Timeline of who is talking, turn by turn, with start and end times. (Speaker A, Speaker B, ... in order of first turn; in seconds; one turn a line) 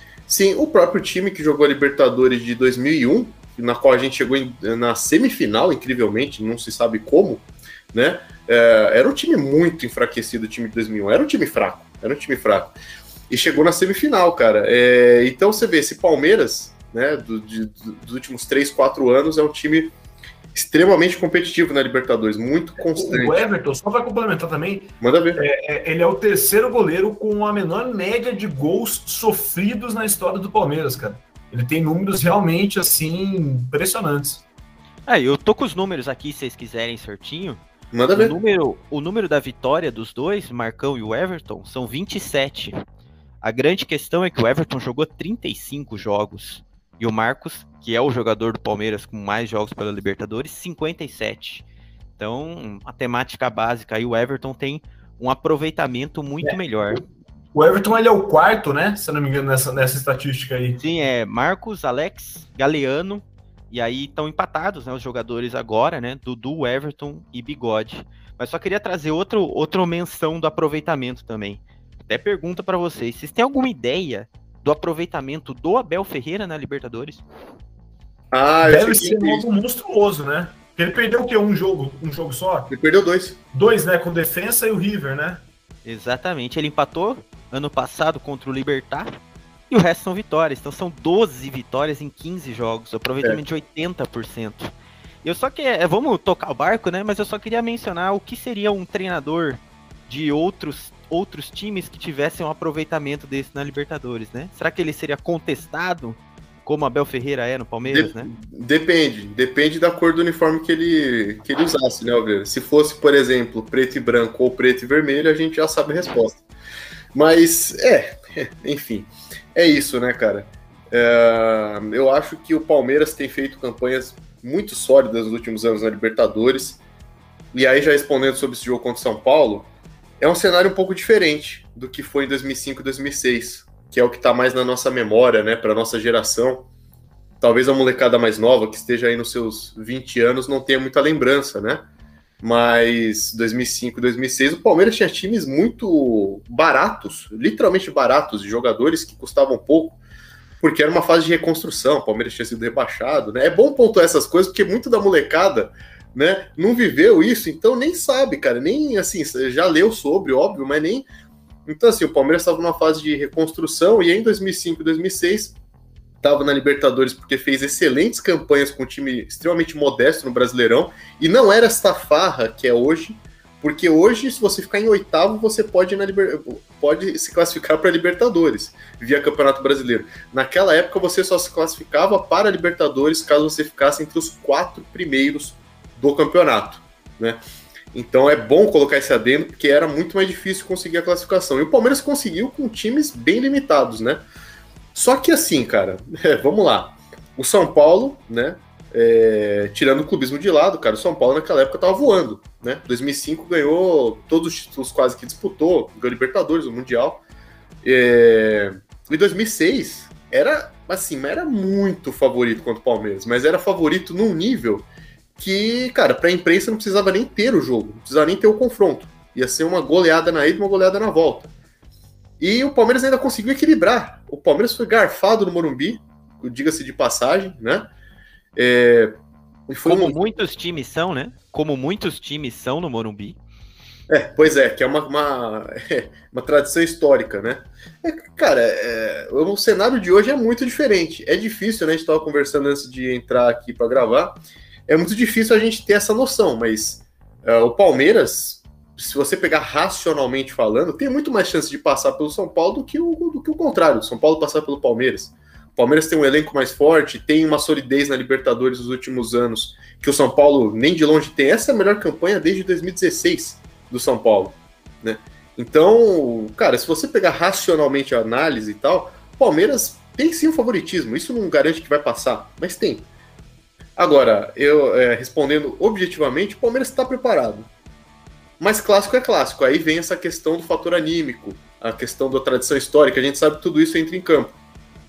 Speaker A: 0.3-12.8
Speaker A: 13.3-19.9
Speaker A: 20.5-23.4
Speaker B: 22.8-34.5
Speaker A: 25.0-25.4
Speaker C: 35.1-37.6
Speaker A: 37.9-38.4
Speaker C: 38.1-42.8
Speaker C: 43.4-51.6
Speaker C: 52.2-57.0
Speaker B: 56.4-57.0
Speaker B: 57.5-60.8
Speaker C: 60.8-77.2
Speaker A: 78.3-79.5
Speaker B: 78.6-82.7
Speaker A: 82.7-83.4
Speaker B: 83.5-85.4
Speaker C: 85.8-89.1
Speaker C: 89.7-94.7
Speaker C: 95.2-108.3
Speaker A: 107.9-116.4
Speaker A: 117.1-126.8
Speaker A: 127.5-136.7
Speaker A: 137.4-141.9
Speaker A: 142.4-150.0
Speaker A: 150.6-161.1
Speaker A: 161.7-165.6
Speaker A: 166.2-187.4
Speaker A: 187.9-194.3
Speaker A: 194.9-207.2
Speaker A: 207.8-221.5
Speaker A: 222.4-227.9
Speaker A: 228.6-229.1
Speaker A: 229.7-230.2
Speaker C: 229.8-233.4
Speaker A: 234.1-273.1
Speaker A: 274.0-277.7
Speaker A: 278.6-284.6